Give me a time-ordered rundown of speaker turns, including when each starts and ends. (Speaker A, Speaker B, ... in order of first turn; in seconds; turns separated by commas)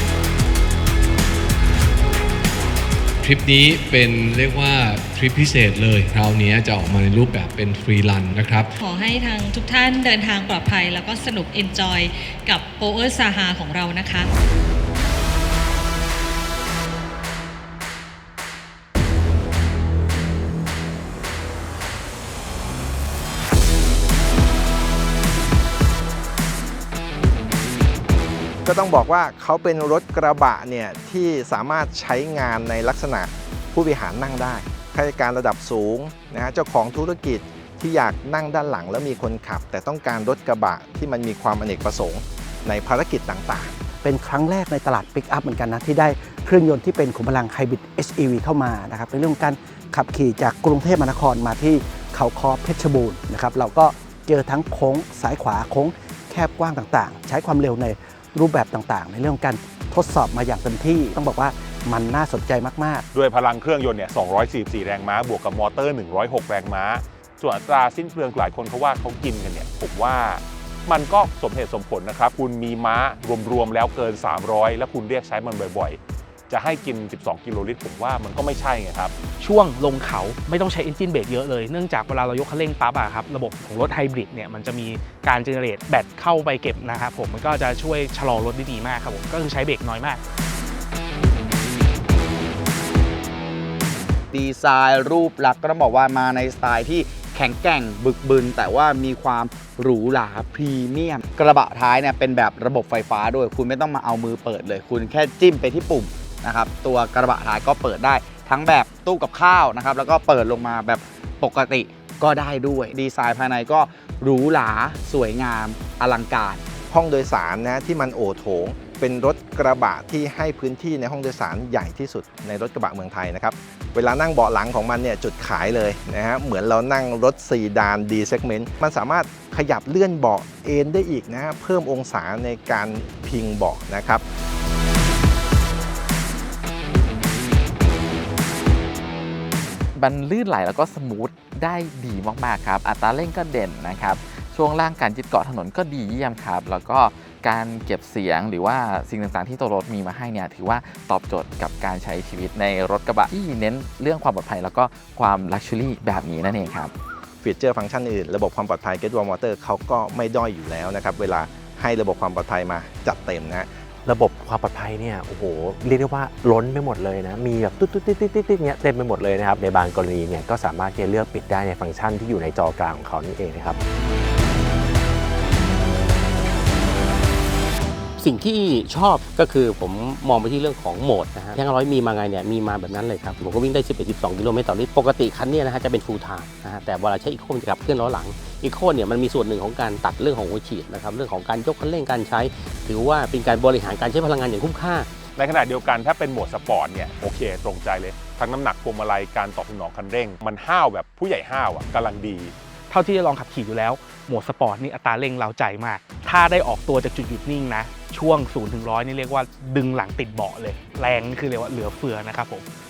Speaker A: 3.2-8.7, Speaker B: 9.4-14.2, Speaker C: 28.6-43.8, Speaker D: 44.0-63.0, Speaker E: 63.1-79.1, Speaker F: 79.4-90.2, Speaker G: 94.3-116.6, Speaker C: 116.9-134.2, Speaker H: 139.9-156.9, Speaker C: 157.4-163.7, Speaker I: 164.0-173.8, Speaker J: 178.2-195.1, Speaker E: 195.4-202.5, Speaker F: 202.9-212.6